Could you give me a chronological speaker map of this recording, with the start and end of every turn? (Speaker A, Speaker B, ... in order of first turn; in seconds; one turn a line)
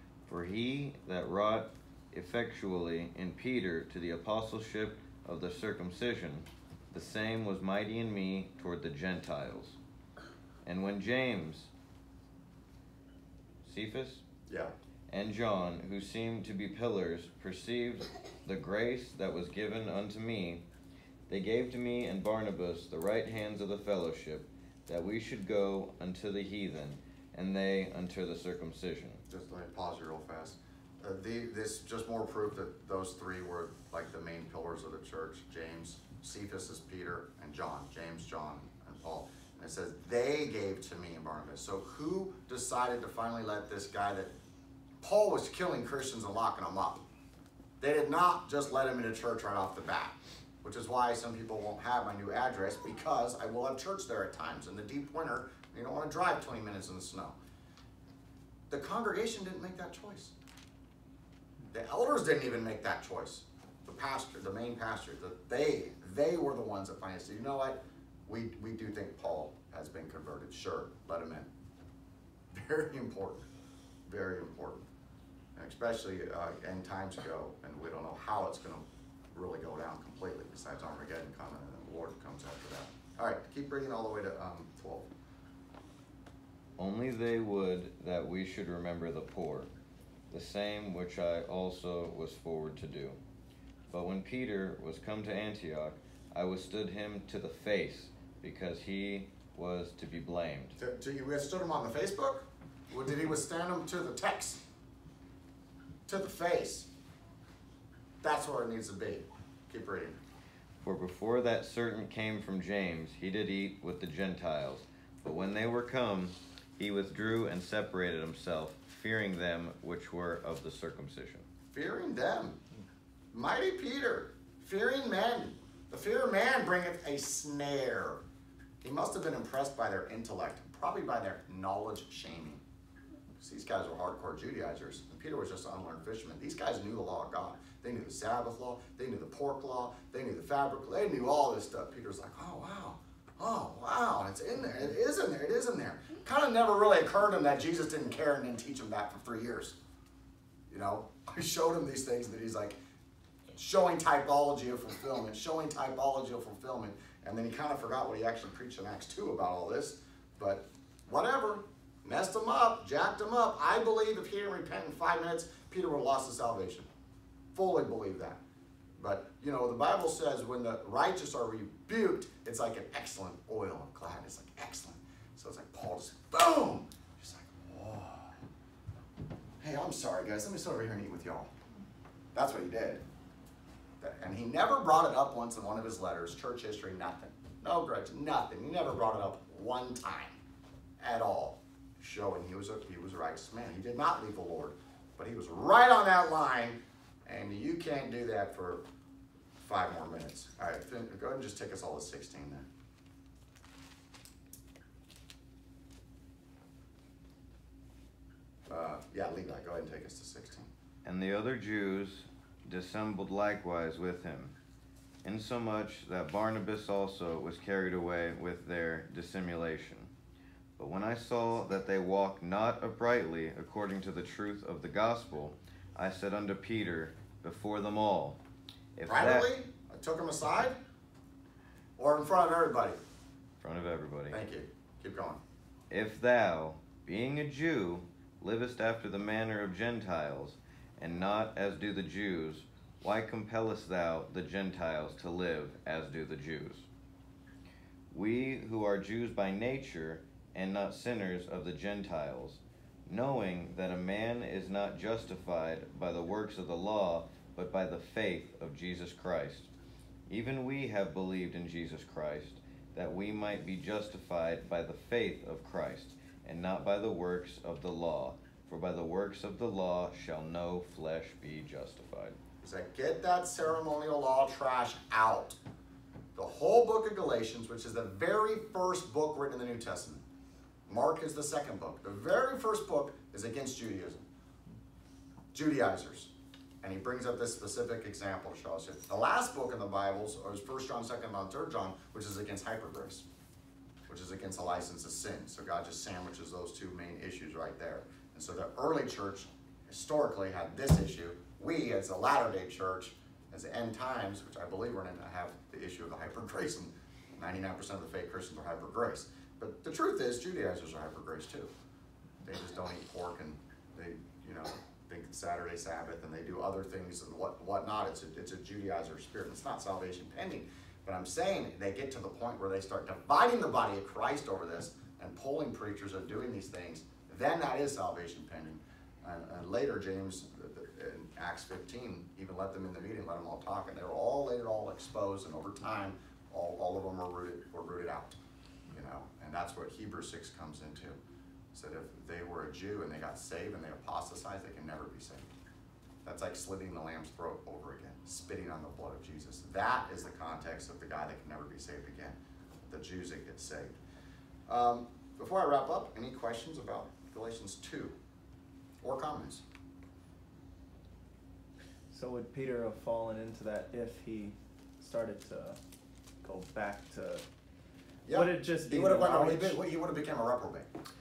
Speaker A: 0.2-9.8
Speaker A: 10.6-11.7
Speaker A: 13.6-14.2
Speaker B: 14.5-14.7
Speaker A: 15.1-20.6
Speaker A: 21.3-29.2
Speaker B: 29.3-44.3
Speaker B: 45.0-47.0
Speaker B: 47.8-57.4
Speaker B: 58.7-60.3
Speaker B: 61.7-71.5
Speaker B: 72.5-73.5
Speaker B: 74.0-74.9
Speaker B: 75.5-85.1
Speaker A: 86.8-89.7
Speaker A: 90.3-93.2
Speaker A: 93.9-100.8
Speaker B: 100.8-104.6
Speaker B: 106.1-106.9
Speaker B: 108.2-110.2
Speaker A: 110.8-121.5
Speaker B: 121.7-122.6
Speaker B: 123.3-128.2
Speaker B: 128.8-132.6
Speaker B: 133.4-149.8
Speaker B: 150.7-152.8
Speaker B: 153.5-166.9
Speaker B: 167.5-168.4
Speaker B: 169.0-178.3
Speaker B: 179.6-181.5
Speaker B: 182.3-183.0
Speaker B: 184.0-190.4
Speaker B: 191.0-198.8
Speaker B: 199.6-202.7
Speaker B: 208.7-210.7
Speaker A: 211.0-214.5
Speaker A: 215.2-220.1
Speaker A: 220.8-228.4
Speaker A: 229.0-229.5
Speaker B: 229.1-230.8
Speaker B: 232.0-233.0
Speaker A: 233.6-234.4
Speaker B: 234.3-235.4
Speaker A: 235.9-246.8
Speaker A: 248.1-259.7
Speaker A: 260.3-272.4
Speaker B: 272.6-275.6
Speaker B: 276.3-280.2
Speaker B: 280.9-284.2
Speaker B: 285.5-286.3
Speaker B: 286.8-293.2
Speaker B: 294.1-311.7
Speaker B: 312.4-338.4
Speaker B: 338.9-341.2
Speaker B: 341.7-345.5
Speaker B: 346.2-353.9
Speaker B: 354.7-358.1
Speaker B: 359.0-359.6
Speaker C: 362.1-365.8
Speaker C: 366.4-367.4
Speaker B: 368.2-370.9
Speaker C: 368.3-369.8